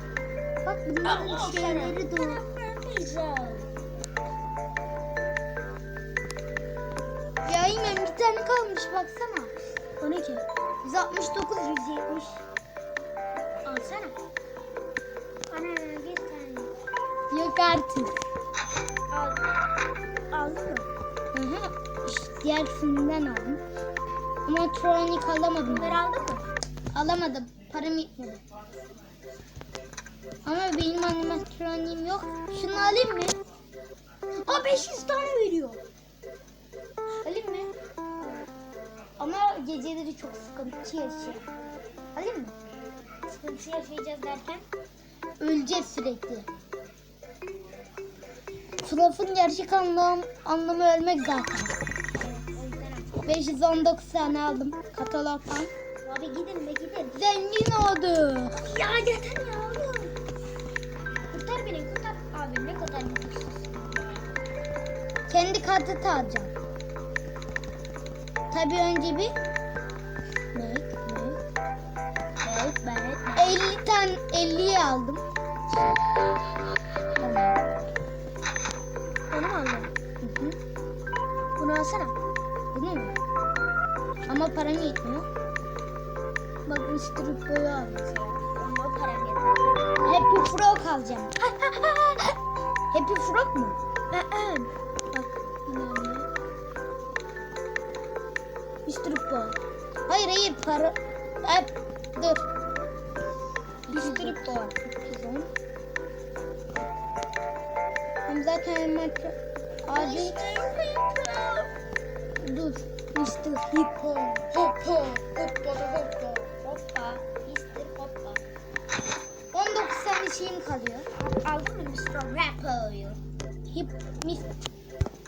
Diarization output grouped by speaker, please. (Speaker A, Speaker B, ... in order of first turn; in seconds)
Speaker A: 0.6-2.4, 7.5-9.5, 10.8-12.4, 17.3-18.1, 21.3-23.6, 24.4-26.0, 26.9-28.4, 30.4-33.4, 37.2-37.7, 39.2-41.4, 42.1-42.5, 45.4-46.5, 48.8-51.7, 53.2-55.7, 57.1-58.6, 65.3-66.5, 68.5-69.3, 70.5-71.4, 73.4-75.2, 77.2-77.6, 80.2-80.6, 82.7-83.1, 84.3-85.3, 90.0-91.3, 92.9-93.8, 100.1-102.4, 103.9-105.5, 108.2-110.7, 112.4-113.8, 119.5-121.0, 123.7-124.5
Speaker B: 1.0-3.7, 10.0-10.4, 13.6-14.2, 15.5-16.7, 19.1-19.4, 20.3-20.9, 25.6-26.5, 34.4-35.8, 43.3-44.6, 52.2-53.2, 56.0-57.2, 58.6-60.1, 61.3-64.0, 72.4-73.6, 79.3-79.9, 81.6-82.1, 86.7-89.9, 91.4-92.4, 94.1-96.2, 98.9-99.5, 103.9-104.7, 109.9-111.7, 113.5-118.4, 121.2-123.2